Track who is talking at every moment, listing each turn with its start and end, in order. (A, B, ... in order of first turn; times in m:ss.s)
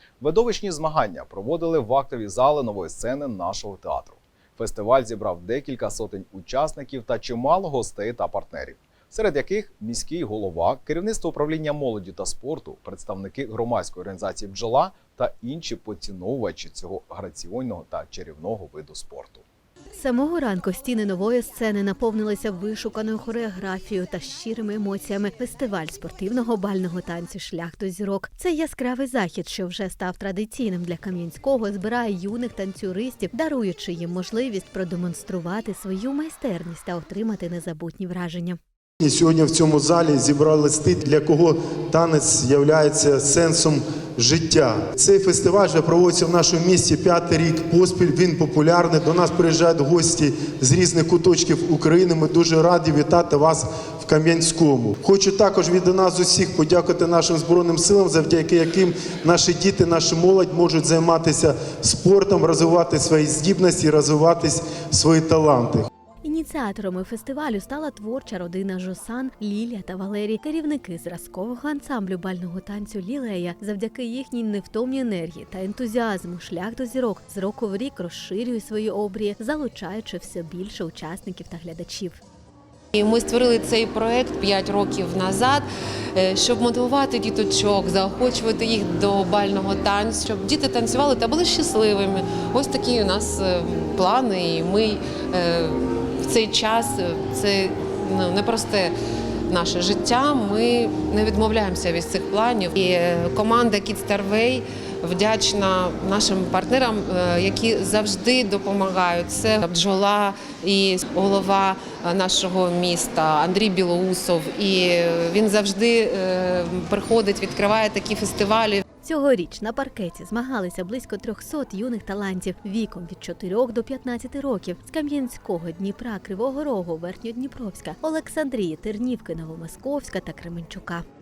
0:00.2-0:19.4 A
0:19.9-0:38.6 B
0:39.0-1:05.9 C
1:06.2-1:22.2 B
1:22.9-1:38.9 D
1:39.5-1:58.8 D
1:59.0-2:11.0 B